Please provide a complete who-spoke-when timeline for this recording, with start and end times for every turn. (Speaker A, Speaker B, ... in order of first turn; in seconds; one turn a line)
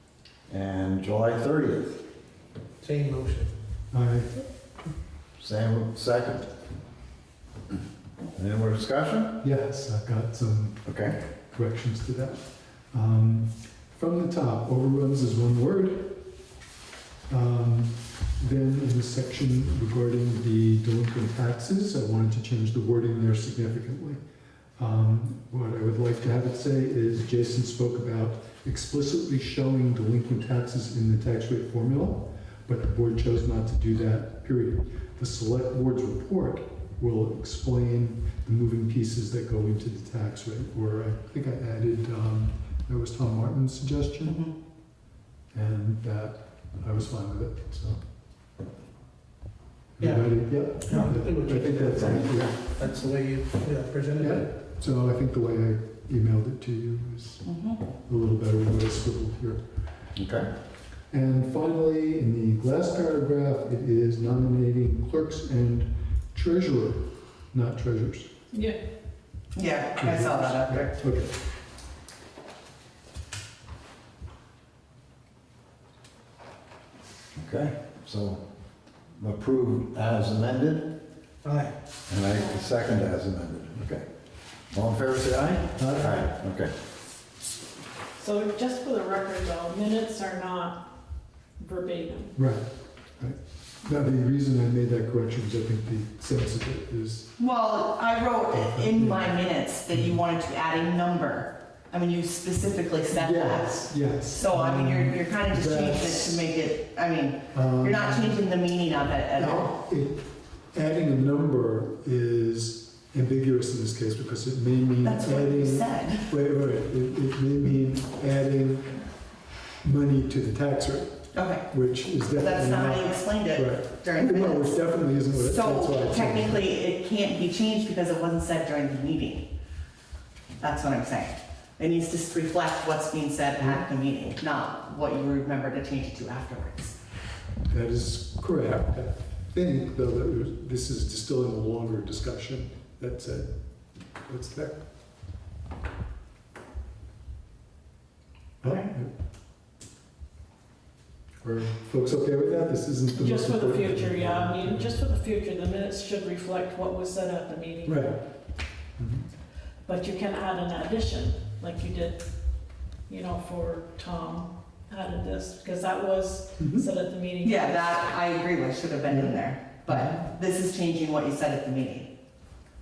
Speaker A: 0.5-2.0
Speaker B: 2.8-3.5
Speaker C: 3.9-4.5
Speaker A: 5.4-6.5
Speaker A: 8.4-9.4
Speaker C: 9.4-16.2
Speaker A: 10.9-11.2
Speaker C: 17.3-24.2
Speaker C: 24.8-44.4
Speaker D: 44.3-44.5
Speaker C: 45.5-48.0
Speaker C: 50.0-52.6
Speaker B: 50.0-54.5
Speaker C: 54.2-57.5
Speaker D: 57.5-57.9
Speaker C: 58.0-59.6
Speaker A: 60.2-60.5
Speaker C: 61.1-68.3
Speaker E: 68.5-68.8
Speaker D: 69.5-71.0
Speaker C: 70.0-71.3
Speaker A: 77.3-78.4
Speaker A: 79.2-81.0
Speaker B: 81.4-81.7
Speaker A: 82.1-84.0
Speaker A: 84.7-86.7
Speaker C: 85.8-86.3
Speaker E: 88.2-90.9
Speaker E: 91.6-92.3
Speaker C: 92.4-97.3
Speaker D: 97.4-109.7
Speaker C: 98.5-99.4
Speaker C: 103.1-106.4
Speaker C: 107.5-108.5
Speaker C: 109.4-119.0
Speaker D: 115.0-116.3
Speaker C: 119.8-126.7
Speaker D: 121.3-129.5
Speaker D: 130.6-137.0
Speaker C: 133.6-133.9
Speaker C: 137.7-143.5
Speaker C: 144.2-144.8
Speaker C: 148.6-149.1
Speaker D: 148.6-148.9
Speaker C: 151.4-154.9
Speaker E: 153.1-158.2
Speaker C: 157.8-158.3
Speaker C: 159.0-159.3
Speaker E: 159.8-162.2
Speaker E: 163.1-168.0
Speaker C: 166.6-166.9
Speaker D: 167.4-172.1
Speaker C: 169.1-170.3